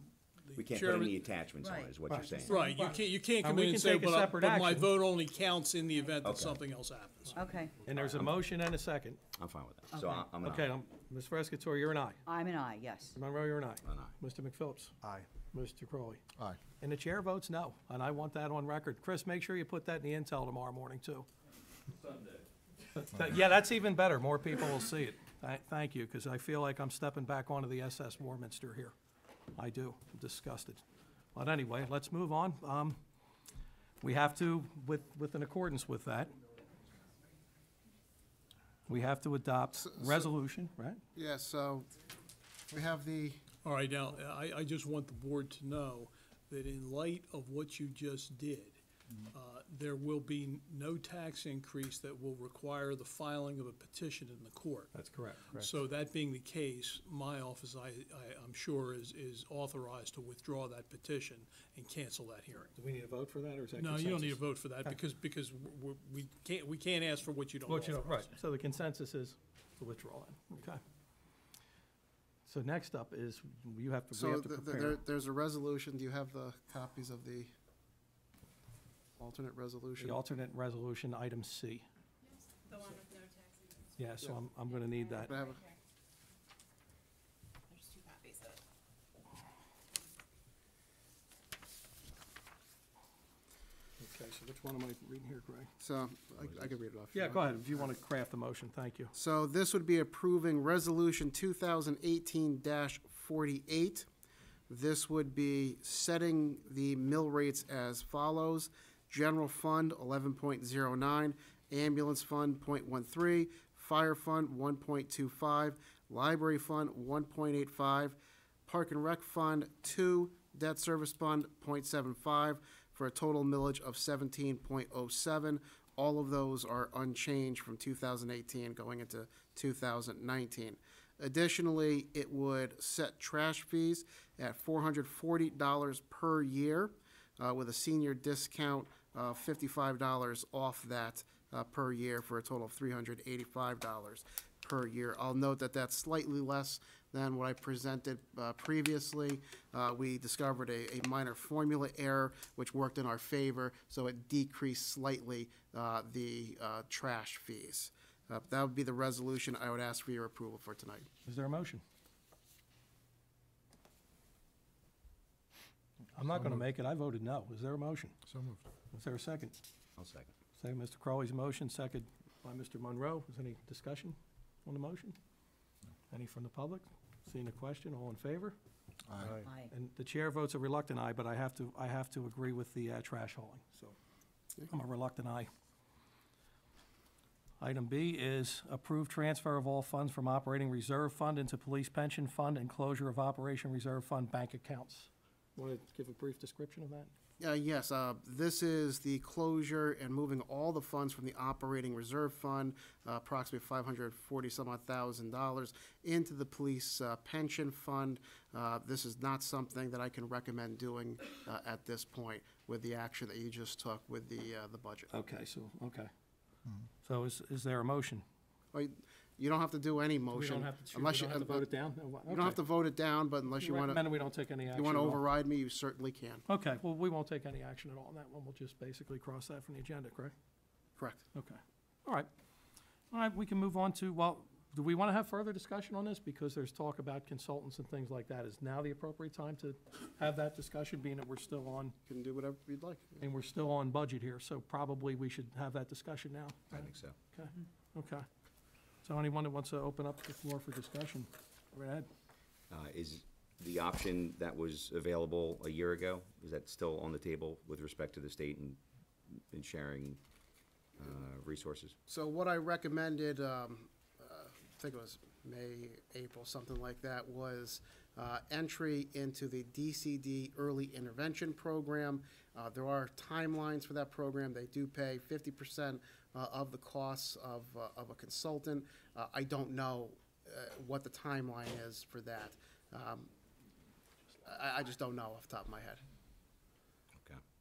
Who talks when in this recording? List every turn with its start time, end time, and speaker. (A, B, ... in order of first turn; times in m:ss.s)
0:00.4-0:01.2 A
0:00.5-0:02.6 B
0:01.6-0:02.8 C
0:02.1-0:05.0 D
0:02.4-0:07.4 A
0:06.2-0:06.6 B
0:07.3-0:07.9 C
0:07.8-0:09.3 D
0:07.9-0:08.4 B
0:09.4-0:10.7 B
0:09.9-0:10.3 C
0:10.4-0:12.2 D
0:12.2-0:13.2 C
0:13.1-0:21.3 D
0:13.8-0:14.1 B
0:22.9-0:28.9 D
0:29.5-0:30.8 D
0:31.3-0:33.0 D
0:34.0-0:36.3 D
0:38.9-0:41.0 D
0:39.9-0:40.2 E
0:41.1-0:41.9 E
0:42.7-0:43.4 E
0:43.6-0:55.0 A
0:54.9-0:55.7 D
0:55.5-1:02.7 A
1:02.8-1:05.0 D
1:03.8-1:08.4 A
1:07.7-1:10.8 D
1:12.4-1:15.0 D
1:14.1-1:17.5 E
1:19.2-1:20.2 E
1:20.0-1:21.8 D
1:22.7-1:23.8 F
1:24.0-1:25.4 D
1:25.2-1:25.6 E
1:27.7-1:28.6 F
1:34.0-1:35.7 D
1:35.8-1:37.9 E
1:36.4-1:36.7 B
1:37.1-1:39.1 D
1:39.1-1:44.0 E
1:44.7-2:41.1 E
2:41.2-2:41.8 D
2:46.1-2:48.1 D
2:48.9-2:49.6 D
2:50.0-2:50.3 B
2:50.6-2:54.1 D
2:54.6-2:55.2 D
2:56.1-2:58.6 D
2:59.1-3:03.9 D
2:59.3-2:59.7 C
3:04.7-3:05.5 D
3:07.6-3:17.1 D
3:17.4-3:35.1 E
3:35.1-3:36.1 D
3:37.0-3:38.2 D
3:38.7-3:41.7 E
3:40.3-3:42.6 D
3:42.3-3:44.0 E
3:43.5-3:45.2 D
3:44.7-3:46.4 E
3:46.5-3:50.3 D
3:51.0-3:51.2 E
3:51.3-3:52.3 D
3:53.1-4:02.0 D
4:02.1-4:03.2 E
4:03.2-4:08.2 D
4:06.7-4:07.2 B
4:09.0-4:12.1 D
4:12.7-4:20.2 B
4:21.0-4:21.9 B
4:22.1-4:43.3 E
4:44.4-4:46.0 E